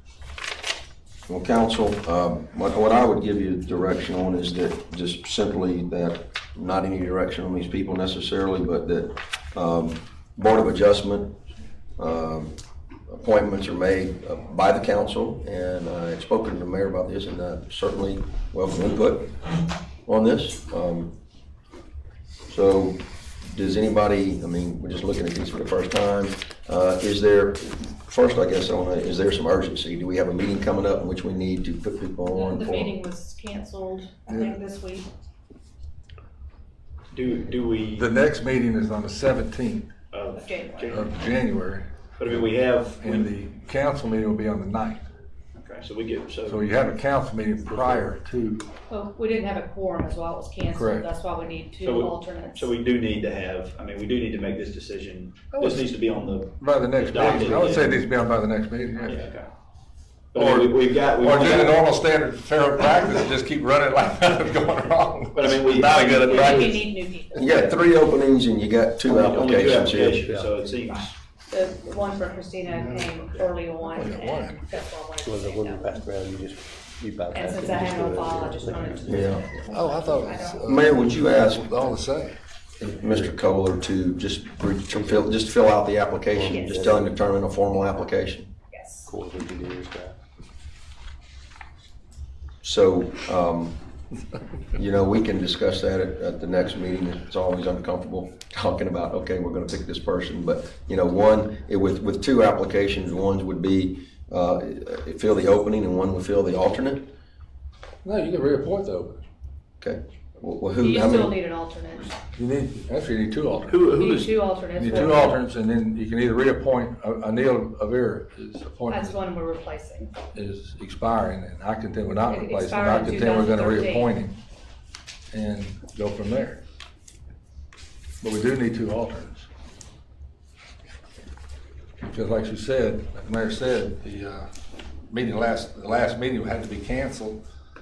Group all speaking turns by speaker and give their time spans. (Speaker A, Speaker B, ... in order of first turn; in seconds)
Speaker A: 1.3-11.3, 12.0-12.5, 13.1-19.4, 20.1-21.1, 22.5-32.9, 67.3-70.2, 79.1-79.5, 80.6-81.7, 82.8-88.5, 92.6-93.8, 94.7-107.0, 109.8-111.3
Speaker B: 32.3-35.0, 40.4-41.0, 48.9-52.7, 66.1-67.7, 71.5-75.9, 77.3-80.8, 86.5-87.0, 88.7-89.1, 110.8-112.2, 113.8-115.4, 118.9-120.1, 122.3-124.1
Speaker C: 37.1-38.1, 40.1-41.0, 42.2-43.3, 45.6-46.7, 51.8-58.0, 59.0-59.5, 60.3-61.8, 65.3-66.8, 69.1-71.1, 113.7-114.3
Speaker D: 37.9-39.9, 40.9-41.9, 43.0-45.0, 46.5-48.6, 50.7-51.1, 55.5-55.8, 56.6-59.2, 60.3-66.8, 74.0-74.6, 79.7-82.3, 108.0-109.2, 112.3-113.9, 114.7-119.2, 120.3-124.3, 125.3-126.6, 128.2-129.5, 132.0-134.5, 135.1-137.4
Speaker E: 69.1-70.9, 75.2-79.4, 84.9-85.3, 86.3-87.0, 89.0-90.2